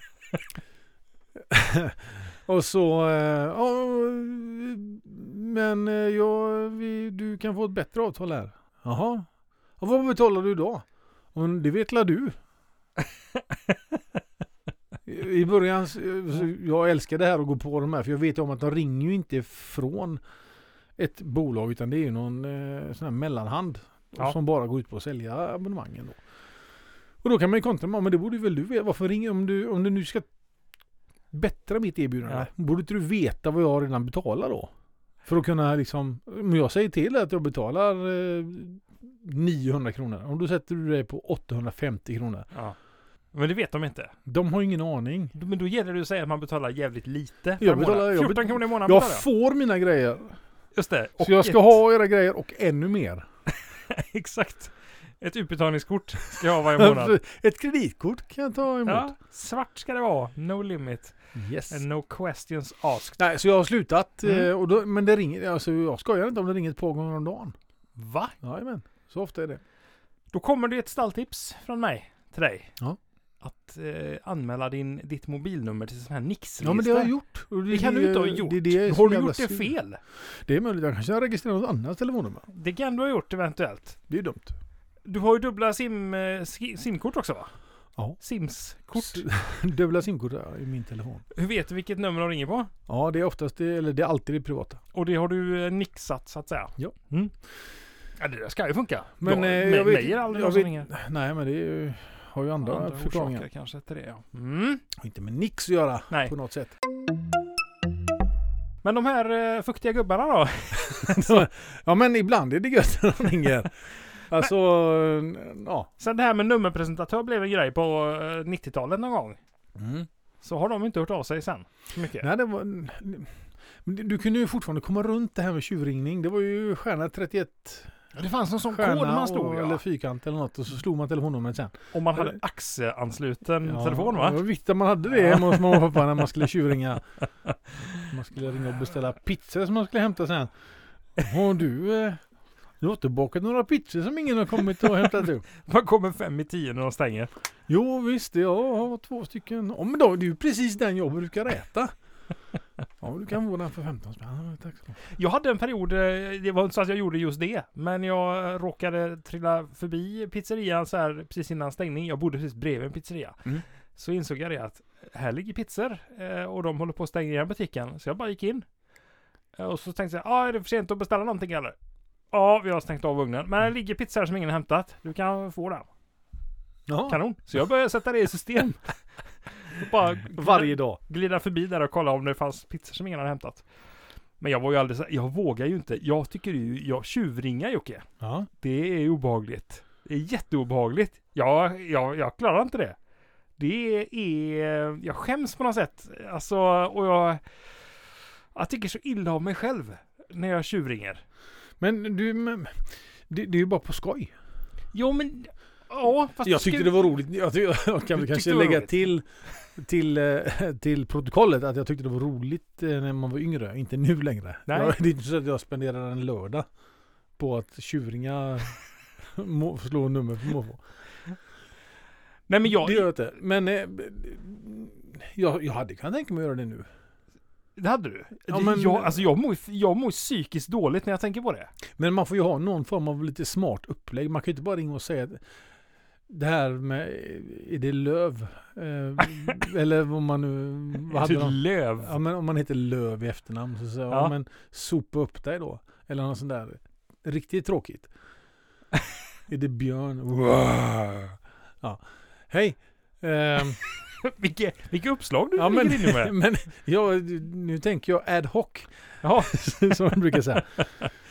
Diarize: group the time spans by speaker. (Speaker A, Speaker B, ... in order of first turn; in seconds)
Speaker A: 1.5-9.3, 9.8-12.4, 15.1-20.2, 21.0-26.2, 27.2-30.3, 31.3-34.7, 35.2-42.5, 44.2-45.3, 47.6-50.4, 51.2-53.2, 56.7-59.1, 61.3-61.8, 63.2-67.5, 68.4-69.6, 76.6-79.7, 80.2-82.5, 84.1-84.5, 88.9-91.2, 92.9-94.8, 99.2-103.4, 105.0-106.7, 110.9-115.9, 119.8-120.1, 122.2-123.3, 123.8-127.9, 128.7-132.4, 133.6-137.0, 138.0-140.5, 141.2-142.2, 142.8-145.4, 147.7-151.9, 153.0-154.9, 176.9-177.2, 180.3-181.0, 188.2-188.5, 201.8-204.3, 206.4-209.2, 209.7-216.7, 217.4-220.8, 222.7-226.9, 228.5-229.2, 232.0-235.4, 236.3-248.1, 249.5-253.8, 255.6-260.8
Speaker B: 43.3-44.1, 45.3-49.2, 50.7-51.7, 53.9-57.2, 58.9-61.1, 61.7-63.2, 68.0-68.3, 70.3-72.7, 73.4-77.1, 77.7-80.0, 82.5-84.0, 85.0-87.5, 88.2-89.2, 91.3-92.7, 94.9-97.3, 98.2-100.9, 102.6-104.8, 108.8-111.4, 116.0-119.4, 120.4-122.3, 128.1-129.8, 131.9-134.4, 135.5-135.8, 145.6-147.3, 155.1-168.7, 169.6-171.8, 172.3-175.9, 177.1-178.9, 179.5-183.6, 184.4-188.1, 188.6-192.9, 193.6-197.4, 198.5-201.2, 204.9-206.9, 208.1-208.9, 214.7-214.9, 222.5-223.1, 227.8-231.7, 241.1-242.1, 254.0-256.3, 259.2-259.7